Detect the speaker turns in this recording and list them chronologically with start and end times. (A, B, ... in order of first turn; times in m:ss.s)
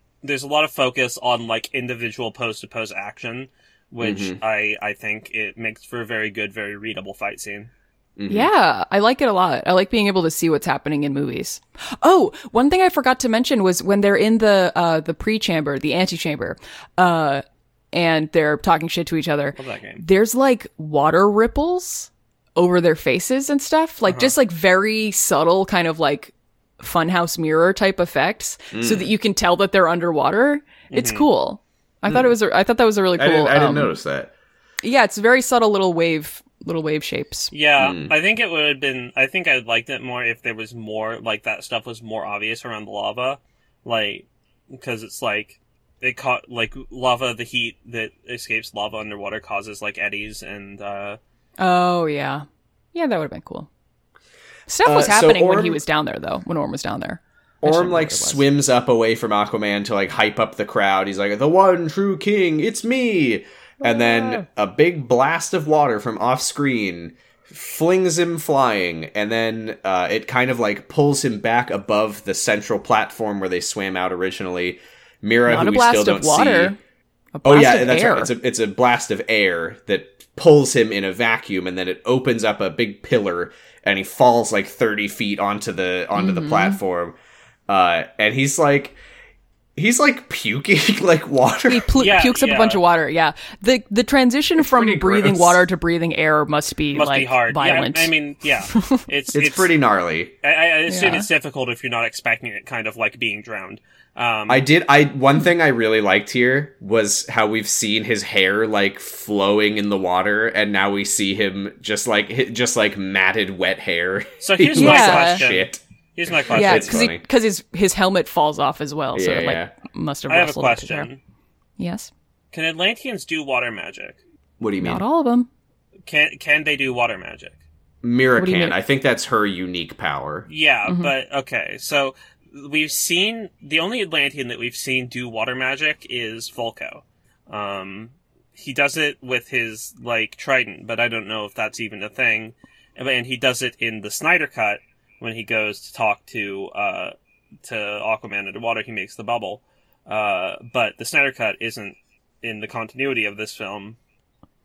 0:00.2-0:07.7 A
0:04.0-0:04.4 B
0:08.2-0:08.5 B
0:08.3-0:33.9 C
0:19.6-0:20.0 A
0:24.1-0:24.3 A
0:28.7-0:29.1 B
0:30.9-0:31.2 A
0:32.1-0:32.3 B
0:33.2-0:34.3 B
0:34.8-0:37.5 C
0:37.5-0:51.2 A
0:37.8-0:38.1 B
0:51.6-0:53.7 C
0:54.7-0:58.4 C
0:54.8-0:55.8 B
0:57.6-1:16.8 B
1:03.8-1:04.4 C
1:15.5-1:16.8 C
1:17.4-1:18.3 C
1:17.4-1:27.2 B
1:26.2-1:26.8 C
1:27.7-1:29.0 B
1:29.8-1:31.8 B
1:31.7-1:38.1 C
1:32.0-1:32.8 A
1:34.6-1:35.6 B
1:36.9-1:39.7 A
1:38.7-1:39.0 C
1:39.3-1:40.3 B
1:40.4-1:44.6 A
1:40.9-1:41.3 C
1:44.5-1:55.8 B
1:54.4-1:57.0 A
1:54.7-1:55.4 C
1:56.4-1:57.2 B
1:56.5-2:01.1 C
1:59.1-1:59.7 B
2:00.3-2:01.2 A
2:01.8-2:02.1 C
2:02.5-2:04.2 A
2:04.6-2:05.0 B
2:04.8-2:05.5 C
2:06.0-2:07.6 A
2:08.0-2:10.5 B
2:08.4-2:08.7 C
2:10.5-2:34.0 A
2:10.9-2:11.1 C